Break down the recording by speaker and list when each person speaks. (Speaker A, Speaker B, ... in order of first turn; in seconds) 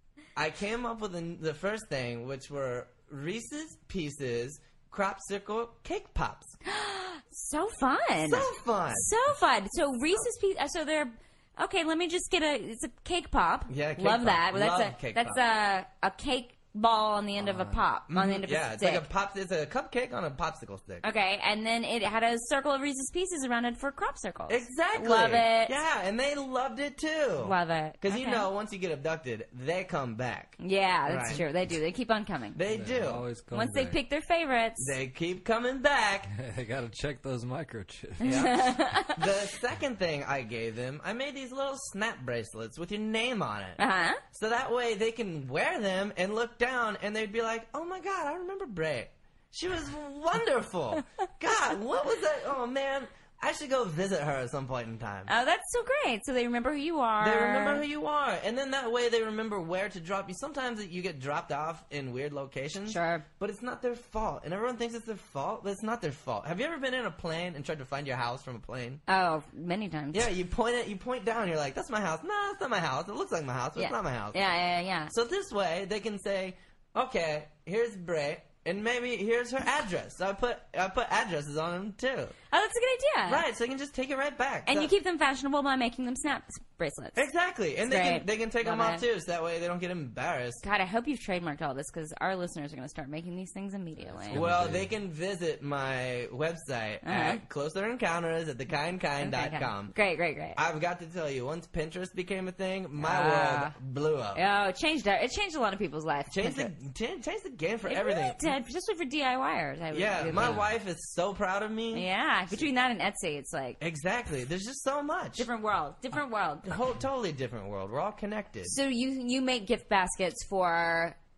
Speaker A: 0.4-6.6, 8.2-9.1, 13.7-15.4, 18.1-21.1, 24.5-31.4, 32.5-33.3, 34.8-36.3, 38.2-43.8, 44.3-55.3, 57.2-69.0, 70.1-74.4, 75.1-82.3, 83.3-84.9, 87.2-90.6, 94.3-99.9, 100.5-104.4, 106.3-108.5, 109.9-112.6, 113.8-115.5, 116.6-118.8
Speaker B: 6.7-19.1, 21.0-25.8, 27.4-28.5, 30.6-32.6, 33.5-35.0, 38.2-39.3, 43.8-44.2, 55.3-57.8, 62.9-63.2, 69.1-70.3, 73.8-75.1, 82.5-83.5, 84.7-87.3, 87.8-89.0, 90.6-94.4, 97.0-97.4, 99.2-100.6, 103.0-103.8, 104.3-106.7, 107.9-110.6, 111.9-113.8, 115.4-116.7, 118.7-121.2
Speaker C: 32.7-34.0, 36.3-38.5, 94.1-94.9, 110.3-110.7